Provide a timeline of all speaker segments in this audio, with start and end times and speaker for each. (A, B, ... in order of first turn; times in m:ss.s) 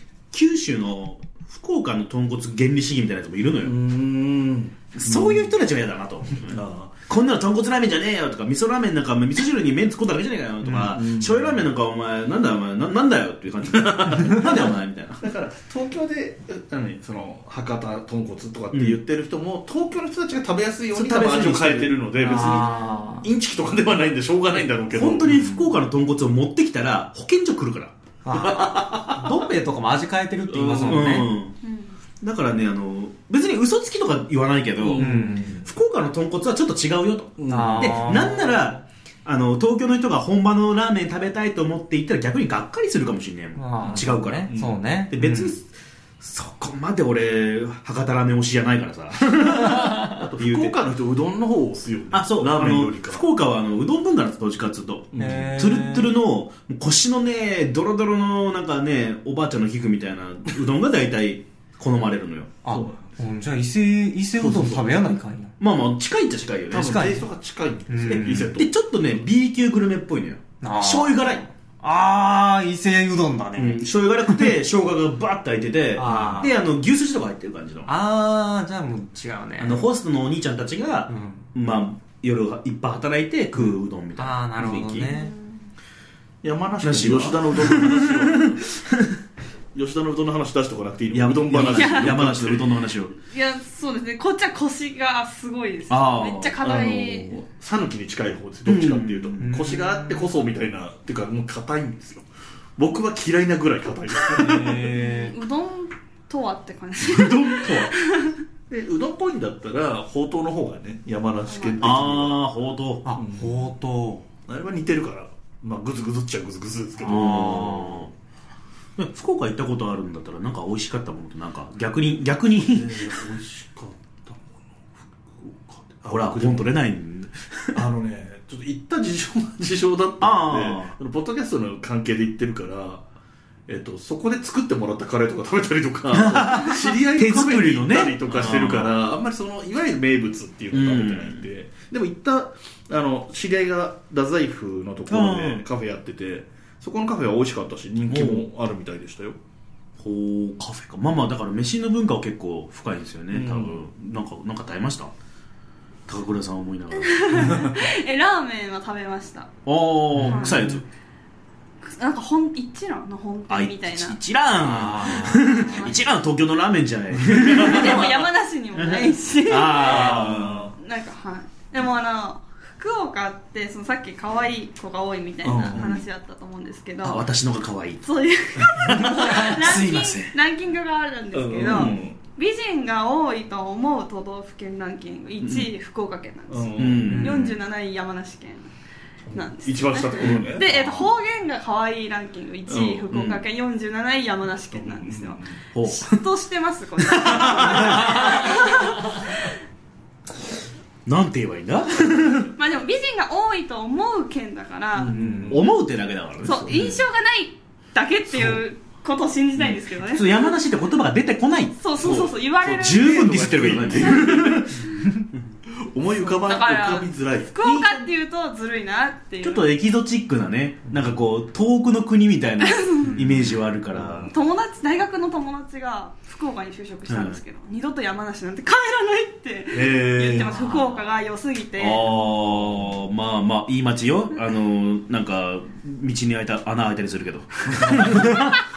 0:00.3-0:03.8 A
0:03.6-0:05.5 B
0:05.0-0:15.2 A
0:06.4-0:06.9 B
0:10.6-0:11.6 B
0:13.8-0:25.7 B
0:18.7-0:19.0 A
0:20.9-0:22.0 A
0:22.2-0:23.3 C
0:22.5-0:23.2 D
0:24.9-0:29.4 A
0:28.2-0:31.3 C
0:30.5-0:31.6 A
0:31.6-0:32.0 D
0:32.2-0:44.5 A
0:34.8-0:35.7 B
0:35.0-0:35.7 C
0:37.4-0:38.2 B
0:37.5-0:38.8 C
0:43.6-0:45.6 C
0:43.8-0:44.8 B
0:45.1-0:50.8 A
0:49.6-0:53.2 B
0:52.1-1:02.6 A
0:55.1-0:55.7 B
0:55.2-0:56.1 C
1:02.6-1:05.6 C
1:02.7-1:03.2 B
1:04.4-1:05.0 B
1:05.6-1:07.1 A
1:06.7-1:07.2 C
1:06.7-1:08.7 B
1:07.9-1:08.6 C
1:08.1-1:11.4 A
1:10.6-1:14.5 C
1:13.6-1:17.9 A
1:16.0-1:16.6 C
1:16.1-1:16.4 B
1:17.9-1:19.9 C
1:19.6-1:25.1 A
1:21.1-1:21.5 C
1:24.2-1:25.3 C
1:25.1-1:25.6 D
1:26.4-1:28.7 B
1:26.8-1:29.2 A
1:29.7-1:32.7 B
1:31.1-1:33.2 A
1:31.6-1:32.2 D
1:33.3-1:37.3 D
1:35.9-1:36.6 A
1:36.6-1:45.0 B
1:38.6-1:39.5 A
1:39.4-1:40.3 C
1:44.3-1:45.4 C
1:44.8-1:48.4 D
1:47.0-1:48.0 A
1:48.7-1:52.4 B
1:51.4-1:52.0 D
1:51.8-1:53.0 A
1:53.0-1:54.2 C
1:53.2-1:53.7 B
1:54.5-1:57.8 B
1:57.0-1:58.1 C
1:57.0-1:58.1 A
1:59.0-2:03.3 A
2:02.6-2:06.8 B
2:06.1-2:07.9 A
2:07.7-2:13.1 B
2:10.2-2:11.0 A
2:13.7-2:29.4 B
2:16.1-2:19.0 A
2:20.7-2:21.5 A
2:25.1-2:25.6 A
2:28.1-2:28.5 A
2:30.0-2:35.1 A
2:33.3-2:33.8 B
2:36.1-2:37.6 A
2:37.0-2:39.5 D
2:37.4-2:37.8 B
2:39.7-2:40.9 A
2:40.2-2:40.8 C
2:40.2-2:40.6 D
2:41.8-2:44.2 D
2:43.5-2:50.7 A
2:44.6-2:45.5 C
2:45.3-2:46.1 D
2:47.2-2:48.0 B
2:47.4-2:57.3 D
2:49.7-2:50.8 B
2:55.4-2:56.0 B
2:57.0-2:58.1 A
2:58.0-3:08.7 D
2:58.6-3:00.4 A
2:59.0-2:59.4 B
3:01.3-3:02.2 B
3:01.7-3:02.0 A
3:05.4-3:05.7 A
3:06.5-3:07.3 B
3:06.8-3:07.6 A
3:07.1-3:07.5 C
3:09.3-3:11.0 B
3:09.3-3:19.5 D
3:12.7-3:13.1 B
3:13.1-3:13.4 A
3:14.7-3:15.6 B
3:15.7-3:16.2 A
3:17.0-3:18.7 A
3:21.1-3:22.5 A
3:22.6-3:25.2 D
3:25.0-3:25.7 B
3:25.1-3:25.6 C
3:25.5-3:27.0 A
3:26.4-3:27.0 B
3:26.4-3:30.5 D
3:28.3-3:28.6 A
3:29.6-3:35.5 A
3:31.8-3:33.2 D
3:32.6-3:35.0 B
3:33.8-3:35.0 D
3:35.7-3:37.5 B
3:36.4-3:39.7 D
3:37.6-3:38.1 A
3:39.4-3:44.3 A
3:42.6-3:43.4 D
3:43.1-3:43.4 C
3:43.9-3:44.3 B
3:44.3-3:52.3 D
3:47.1-3:47.4 A
3:49.7-3:50.6 B
3:50.6-3:50.8 A
3:51.8-3:58.5 A
3:52.1-3:52.9 B
3:57.8-3:58.4 B